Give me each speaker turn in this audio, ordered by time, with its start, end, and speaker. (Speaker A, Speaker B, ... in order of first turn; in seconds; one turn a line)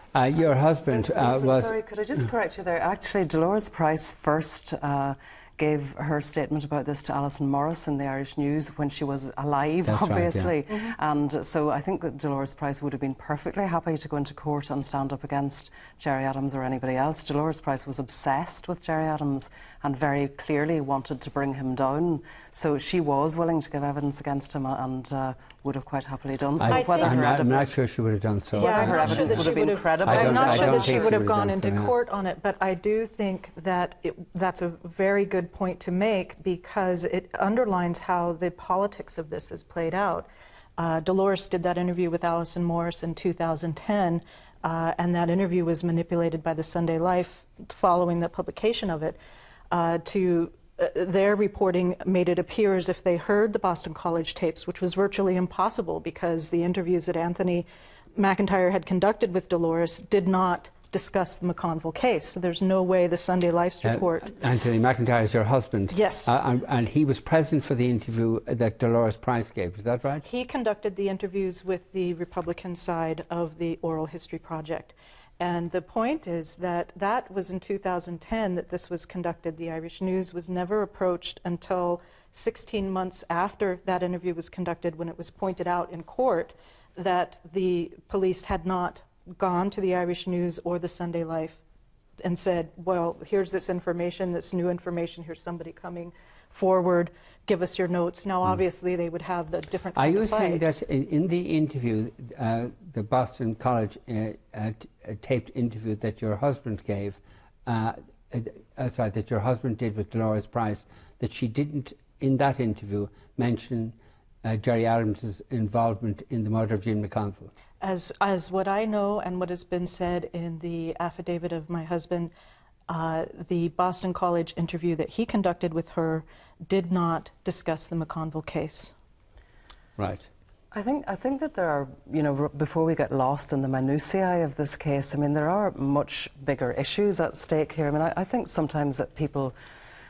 Speaker A: 0.1-1.8
Speaker B: 1.0-27.7
Speaker A: 9.8-10.5
Speaker A: 26.6-29.5
Speaker C: 26.7-27.3
Speaker B: 28.5-31.2
Speaker C: 28.5-49.2
Speaker A: 30.0-31.9
Speaker C: 49.7-64.3
Speaker A: 63.8-70.2
Speaker C: 65.9-66.3
Speaker C: 70.2-91.6
Speaker C: 92.2-100.7
Speaker A: 99.9-117.5
Speaker C: 117.8-122.3
Speaker C: 122.9-128.9
Speaker A: 130.0-130.3
Speaker B: 130.7-139.5